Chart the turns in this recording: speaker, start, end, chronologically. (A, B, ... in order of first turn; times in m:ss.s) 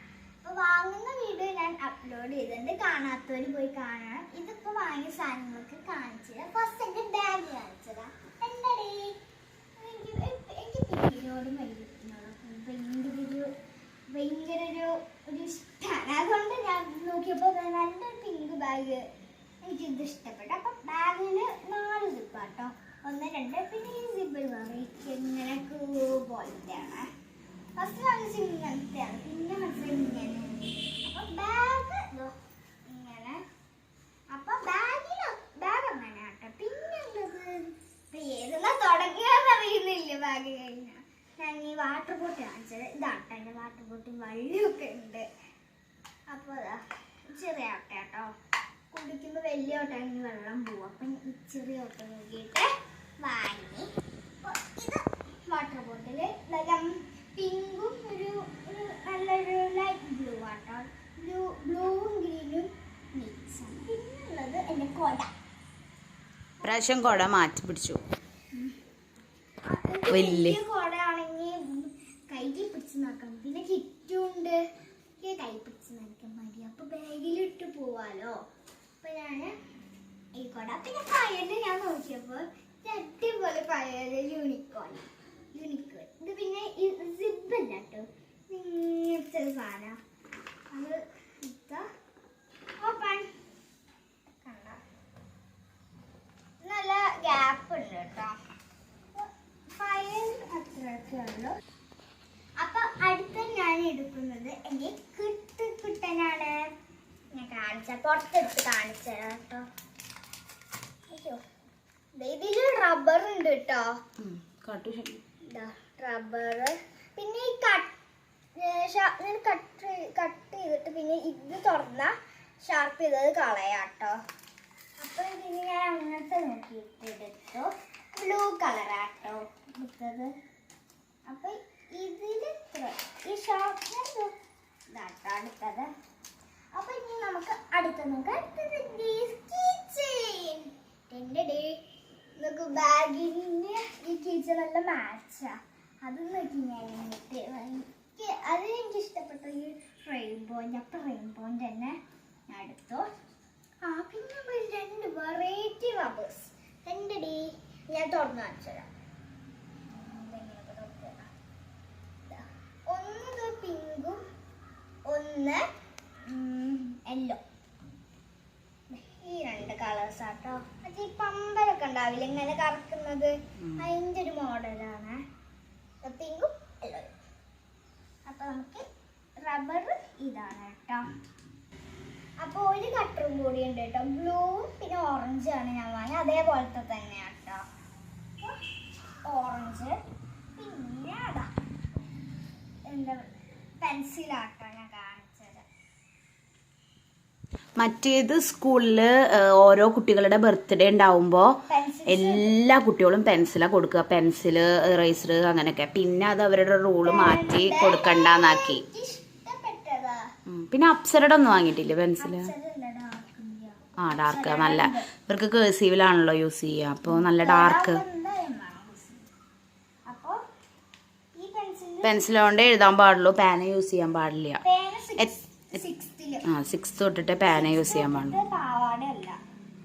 0:00.4-0:09.2 A
0:09.8-0:13.5 A
0:14.1-0:19.0 A
0:19.6-0:27.1 A
0:27.8-0:32.3 A
0:32.8-0:33.4 A
0:34.3-0:45.2 A
0:46.3-0:48.3 A
0:48.9-0:53.9 A
0:54.4-1:05.3 A
1:06.6-1:07.2 A
1:06.6-1:08.0 B
1:09.7-1:14.6 A
1:10.1-1:10.6 B
1:15.2-1:18.3 A
1:19.0-1:19.5 A
1:20.4-1:30.0 A
1:30.7-1:31.8 A
1:32.8-1:33.3 A
1:34.4-1:34.8 A
1:36.6-1:38.4 A
1:39.1-1:41.5 A
1:42.6-1:46.7 A
1:47.3-1:49.6 A
1:51.1-1:51.4 A
1:52.2-1:53.9 A
1:54.2-1:55.2 B
1:55.5-1:57.9 A
1:58.6-2:04.2 A
2:05.0-2:10.3 A
2:11.3-2:14.3 A
2:14.9-2:15.9 A
2:16.7-2:21.8 A
2:22.4-2:32.0 A
2:32.5-2:33.1 A
2:33.8-2:38.9 A
2:39.9-2:41.3 A
2:42.3-2:44.2 A
2:45.1-2:45.6 A
2:46.3-2:47.4 A
2:48.9-2:55.2 A
2:53.6-2:53.8 B
2:56.0-2:57.1 A
2:58.2-2:58.8 A
2:59.4-3:01.0 A
3:02.4-3:07.6 A
3:09.3-3:10.0 A
3:10.6-3:11.5 A
3:12.9-3:13.2 A
3:13.8-3:15.6 A
3:17.8-3:28.8 B
3:21.6-3:22.5 A
3:27.0-3:30.2 A
3:30.5-3:32.5 B
3:32.2-3:35.1 A
3:34.0-3:38.0 B
3:37.1-3:39.2 A
3:40.1-3:40.4 A
3:41.3-3:42.3 A
3:42.0-3:44.6 B
3:44.6-3:46.4 A
3:46.5-3:48.4 B
3:47.4-3:49.4 A